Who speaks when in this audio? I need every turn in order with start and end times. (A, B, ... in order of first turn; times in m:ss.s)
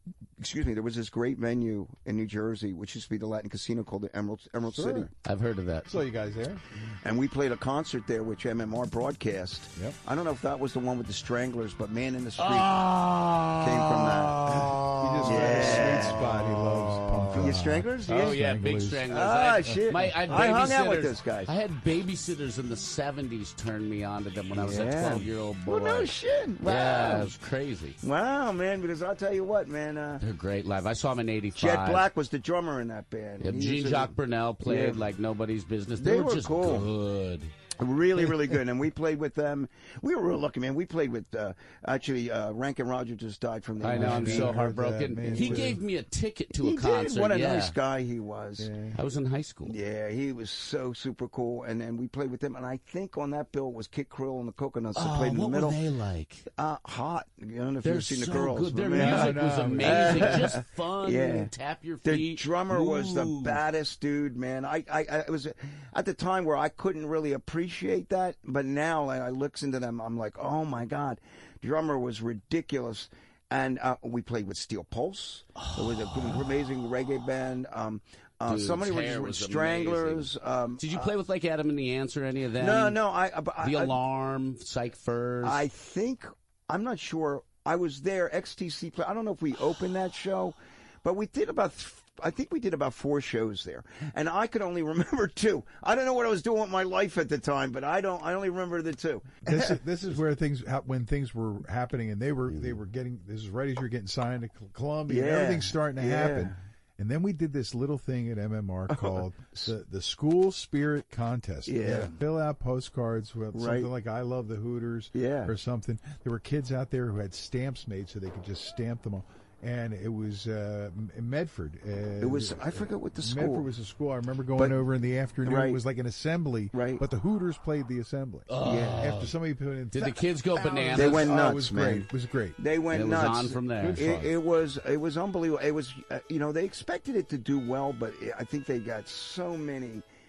0:00.4-0:05.1 A
0:04.7-0:05.1 B
0:05.2-0:06.0 C
0:05.9-0:06.6 B
0:07.0-0:12.8 A
0:12.4-0:17.5 C
0:13.6-0:14.7 A
0:14.5-0:19.1 B
0:15.2-0:16.6 A
0:17.3-0:18.4 A
0:18.1-0:28.0 C
0:19.1-0:21.5 A
0:19.7-0:20.2 B
0:24.5-0:27.3 A
0:28.0-0:30.2 A
0:30.2-0:32.1 C
0:31.6-0:35.0 A
0:33.4-0:37.5 C
0:36.0-0:36.9 A
0:37.8-0:44.6 A
0:43.8-0:47.8 C
0:43.8-0:45.8 B
0:45.3-0:45.8 A
0:46.6-0:48.7 A
0:48.6-0:49.0 B
0:48.9-0:49.8 C
0:49.6-0:55.8 A
0:55.0-0:56.5 C
0:56.5-1:01.5 A
0:57.8-1:03.6 C
0:58.9-1:00.5 B
1:02.0-1:21.1 A
1:15.6-1:16.4 C
1:18.5-1:23.0 C
1:22.6-1:24.0 A
1:23.6-1:25.6 C
1:25.4-1:39.8 A
1:39.4-2:12.6 B
1:45.1-1:46.6 A
1:48.9-1:49.7 A
1:51.7-1:52.2 A
1:53.5-1:53.9 A
1:55.1-1:55.5 A
2:02.2-2:03.7 A
2:04.6-2:04.8 A
2:05.4-2:05.8 A
2:06.7-2:07.0 A
2:08.5-2:09.3 C
2:08.6-2:09.2 A
2:09.9-2:11.3 C
2:10.9-2:20.0 A
2:12.9-2:14.3 C
2:13.8-2:14.2 B